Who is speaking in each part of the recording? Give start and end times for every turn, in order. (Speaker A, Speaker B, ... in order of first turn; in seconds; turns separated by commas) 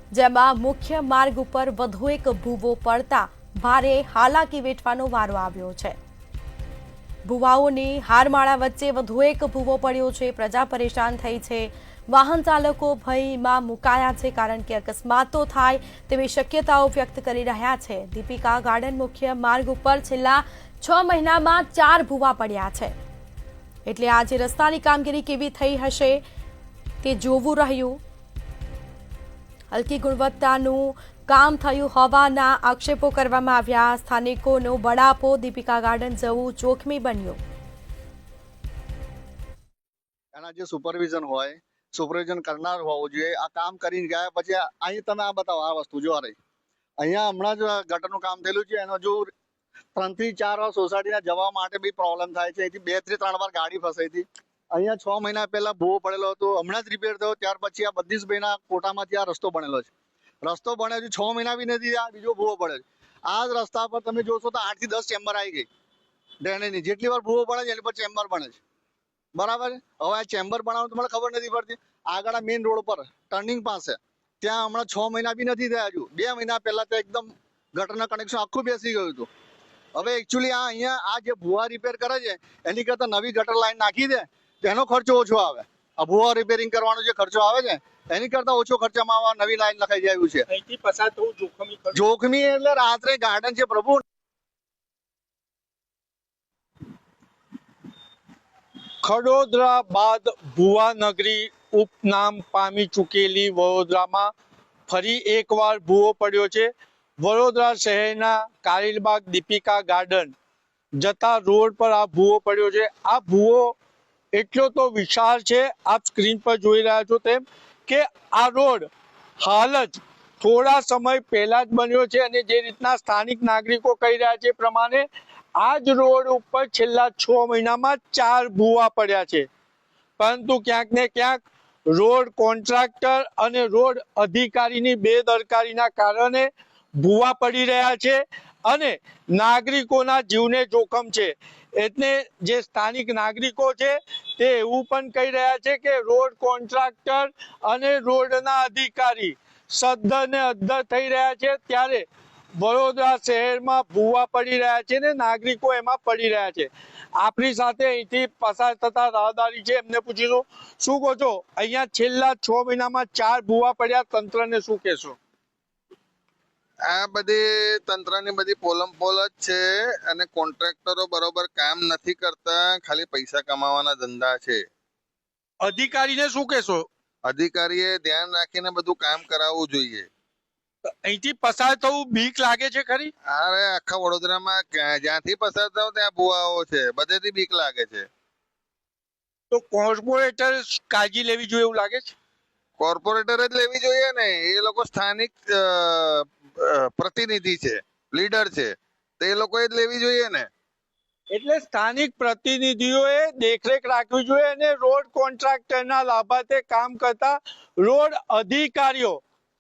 Speaker A: 0.1-6.0, Speaker A: 7.2-22.9, Speaker A: 23.9-26.2, Speaker A: 27.0-28.0, Speaker A: 29.7-37.4, Speaker B: 40.3-46.4, Speaker B: 47.0-49.3, Speaker B: 50.0-59.9, Speaker B: 60.4-65.7, Speaker B: 66.4-68.6, Speaker B: 69.3-79.3, Speaker B: 80.0-90.5, Speaker C: 90.5-92.0, Speaker B: 91.9-94.0, Speaker C: 99.0-104.3, Speaker C: 104.9-110.3, Speaker C: 111.0-113.8, Speaker C: 114.3-118.9, Speaker C: 119.4-125.0, Speaker C: 125.6-129.5, Speaker C: 130.2-152.1, Speaker C: 152.6-165.2, Speaker D: 166.9-174.6, Speaker C: 175.6-176.9, Speaker D: 177.2-180.1, Speaker C: 180.8-183.1, Speaker D: 183.3-188.1, Speaker C: 189.5-192.1, Speaker D: 192.8-200.5, Speaker C: 201.3-209.2